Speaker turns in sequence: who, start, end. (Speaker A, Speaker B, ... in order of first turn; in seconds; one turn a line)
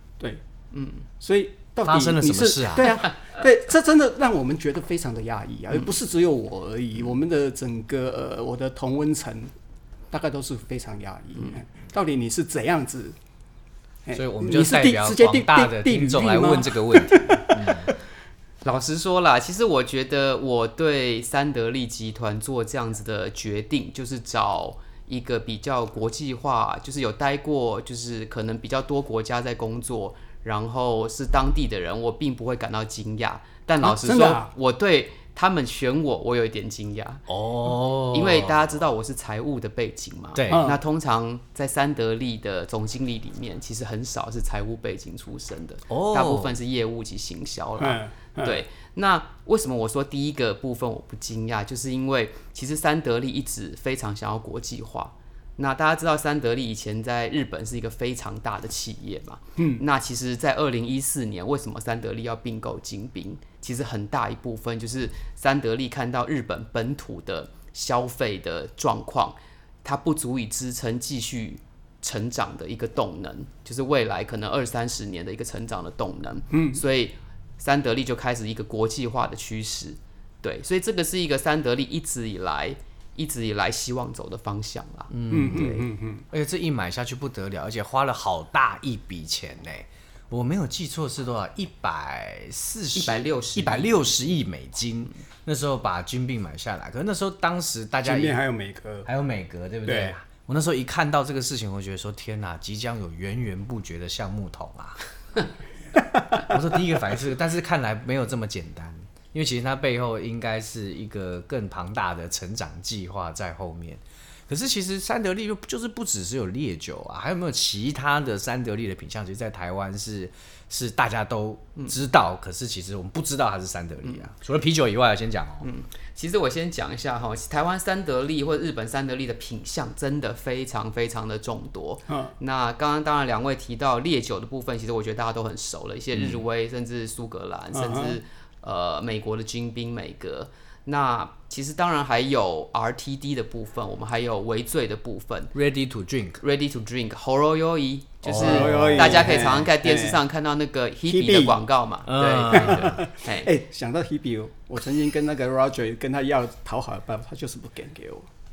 Speaker A: 0.7-1.0
Speaker B: 1.2-9.5
Speaker C: 1.9-3.0
Speaker B: 10.1-13.2
Speaker B: 14.1-17.7
Speaker C: 14.1-17.9
Speaker A: 18.6-37.3
Speaker B: 33.8-34.5
Speaker C: 37.3-38.7
Speaker A: 38.1-85.8
Speaker C: 40.4-40.7
Speaker B: 40.5-40.8
Speaker C: 45.9-46.5
Speaker B: 47.8-48.6
Speaker B: 76.5-76.8
Speaker C: 85.1-98.4
Speaker B: 85.3-86.3
Speaker A: 93.0-94.1
Speaker B: 98.0-99.1
Speaker C: 99.1-105.0
Speaker B: 99.8-100.1
Speaker C: 106.3-125.7
Speaker A: 125.6-145.5
Speaker B: 137.7-138.2
Speaker C: 145.5-146.4
Speaker A: 146.4-153.5
Speaker C: 148.2-149.4
Speaker B: 148.4-150.2
Speaker B: 151.1-151.6
Speaker C: 152.1-153.0
Speaker B: 152.5-158.3